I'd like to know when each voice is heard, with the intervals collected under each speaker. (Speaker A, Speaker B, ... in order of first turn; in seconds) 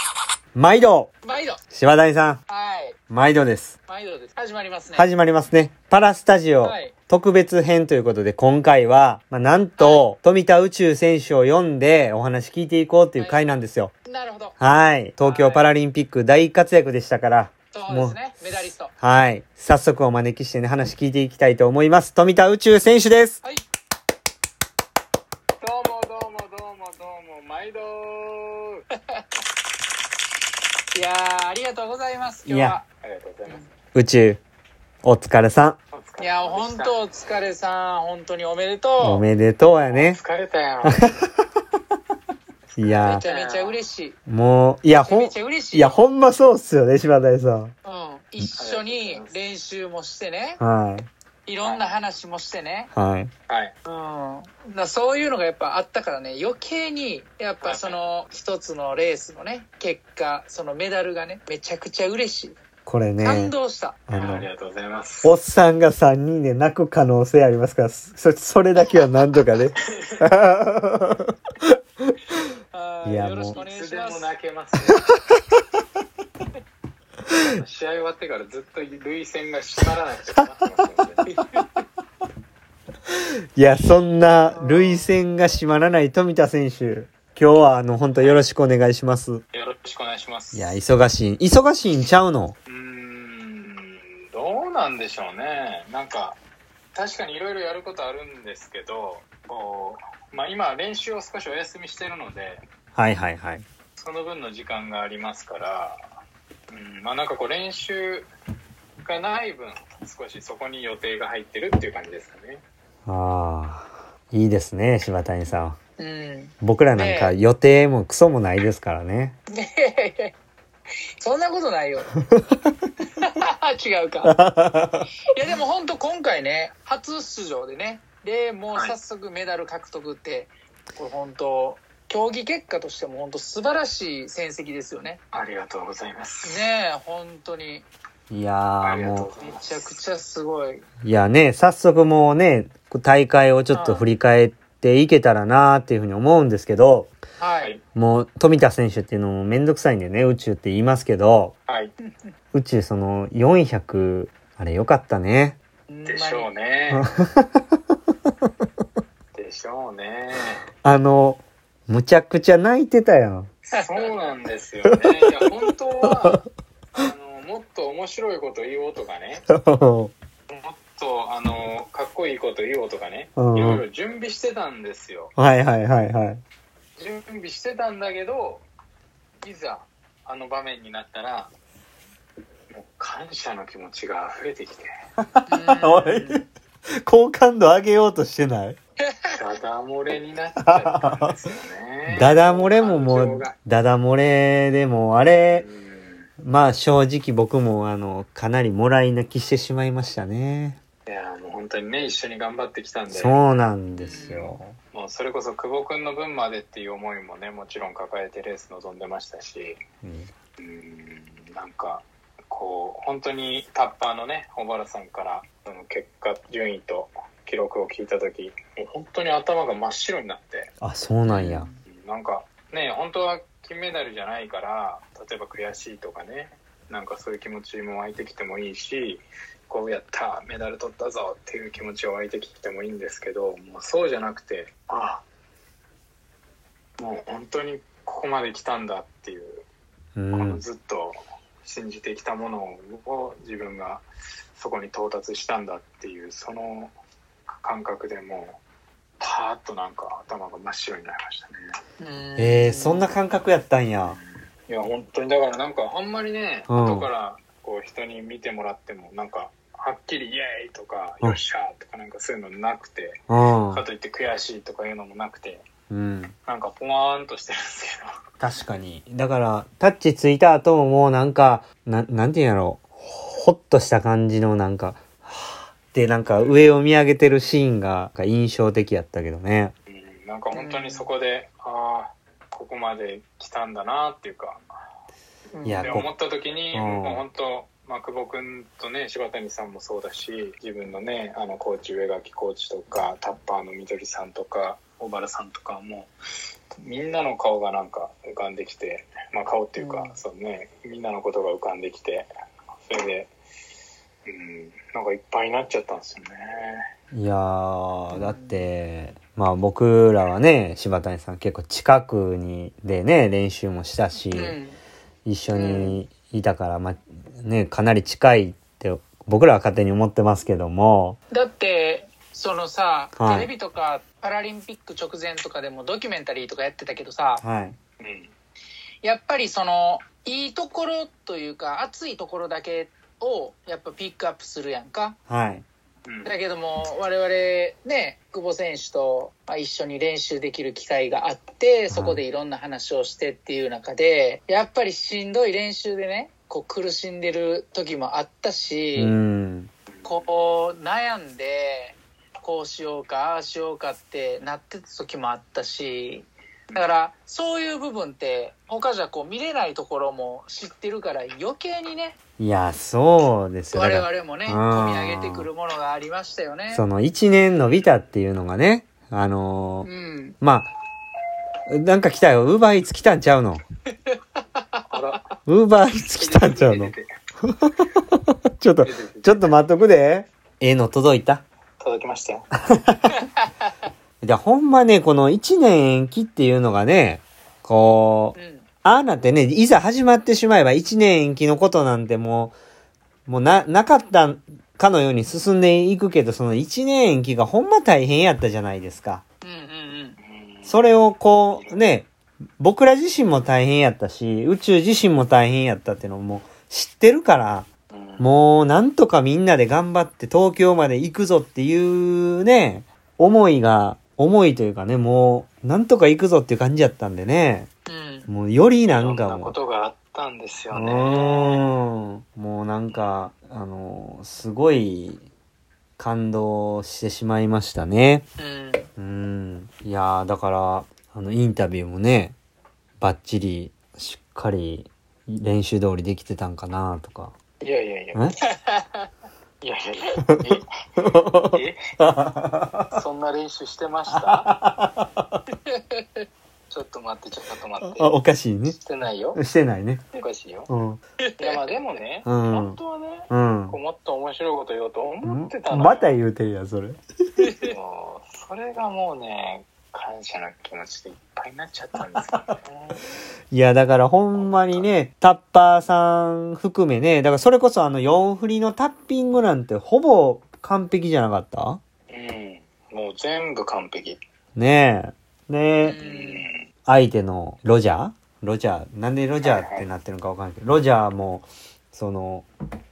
Speaker A: 0.6-1.1, 1.7-2.4, 3.1-3.8, 4.9-13.9, 14.6-18.2, 19.0-23.4, 32.5-32.8, 33.9-34.4, 35.0-35.8, 39.0-40.2, 40.9-41.2, 42.8-43.2, 44.3-47.7, 50.6-51.1, 52.9-53.3, 62.9-63.5, 64.1-64.5, 65.2-71.8, 73.0-73.6, 83.6-89.4, 90.5-92.6, 103.0-103.7, 113.1-115.8, 116.6-119.4, 124.3-125.1, 138.3-139.3, 141.0-147.1, 147.9-151.6, 152.5-155.6, 156.9-157.5, 160.8-163.5, 169.5-170.1, 173.4-173.8, 175.4-176.4, 185.2-186.5, 187.0-188.8, 190.6-191.3, 192.1-195.7, 196.4-200.8, 203.1-204.8, 210.0-210.3, 220.8-221.7, 240.2-240.6, 252.4-254.2, 256.7-257.1, 263.3-263.8, 265.9-266.4, 268.4-279.8, 285.6-286.1, 286.7-287.2, 307.1-314.6, 315.2-321.2, 323.2-323.5, 327.4-327.8, 335.3-335.6, 341.9-342.2, 349.0-349.7, 362.4-365.5, 366.7-369.9, 370.4-370.7, 371.7-373.6, 375.5-381.4, 382.7-383.1, 384.2-392.6, 393.3-399.2, 400.7-407.7, 408.2-417.7, 418.3-419.6, 420.7-425.2, 426.0-428.2, 429.0-432.4, 433.0-437.3, 441.0-443.0, 444.1-445.4, 447.8-448.8, 449.4-450.0, 450.7-451.0, 452.3-452.8, 453.3-453.8, 455.2-457.0, 463.5-471.8, 474.6-476.0, 476.9-482.5
Speaker B: 1.2-1.6, 2.5-3.0, 3.9-5.1, 6.6-6.9, 9.8-10.1, 13.2-13.6, 14.1-14.6, 15.2-15.7, 17.7-18.9, 28.9-29.3, 30.9-32.9, 36.2-39.3, 43.0-44.2, 45.0-46.1, 47.9-50.6, 51.5-52.9, 53.9-62.6, 63.2-64.4, 72.7-74.3, 81.4-81.7, 84.6-85.1, 116.0-117.4, 119.5-120.3, 121.2-122.2, 123.2-124.4, 125.2-135.2, 136.4-137.9, 139.4-140.8, 143.7-144.1, 147.4-147.7, 155.9-156.5, 163.7-164.1, 185.5-186.4, 204.0-204.5, 221.3-221.8, 252.0-253.1, 280.6-281.1, 285.6-286.0, 299.8-300.2, 308.1-308.6, 314.3-314.8, 315.5-316.0, 321.3-327.4, 329.0-335.2, 336.2-349.1, 350.0-362.2, 363.7-366.8, 369.8-370.4, 374.1-374.8, 383.1-383.7, 388.4-388.7, 399.4-400.2, 417.9-418.3, 428.4-428.9, 438.6-439.1, 445.6-446.3, 451.2-451.6, 457.4-457.7, 475.8-476.4
Speaker C: 25.6-28.9, 33.0-33.6, 35.9-37.0, 39.9-41.1, 42.8-43.8, 48.6-49.4, 51.6-52.0, 53.5-53.8, 57.6-58.0, 64.1-65.3, 69.9-70.2, 73.5-75.1, 77.4-81.3, 89.5-90.8, 92.7-96.4, 96.9-102.6, 104.0-106.0, 106.7-108.3, 109.0-112.6, 135.3-136.6, 138.8-139.9, 151.7-151.9, 156.1-157.1, 159.3-160.6, 163.7-166.4, 167.0-169.4, 170.5-175.3, 177.0-178.7, 179.4-181.5, 182.7-184.9, 189.3-193.6, 195.5-196.3, 201.1-203.4, 204.1-209.8, 210.6-220.7, 221.9-235.2, 237.0-239.7, 240.3-244.1, 244.6-246.9, 247.6-248.6, 249.2-251.6, 254.0-265.7, 266.5-268.1, 279.9-284.6, 285.7-296.1, 296.8-302.3, 302.9-303.3, 304.3-306.8, 328.0-328.3, 336.1-336.4, 349.9-350.2, 374.9-375.3, 376.2-377.1, 378.8-379.6, 381.8-382.5, 400.2-400.9, 401.5-401.8, 407.9-408.3, 418.9-421.6, 437.6-438.3, 439.6-441.8, 442.9-444.6, 446.7-448.1, 448.7-449.4, 450.1-450.7, 451.4-456.2, 457.6-463.0, 464.4-464.9, 472.1-474.2, 476.0-476.6, 479.4-479.9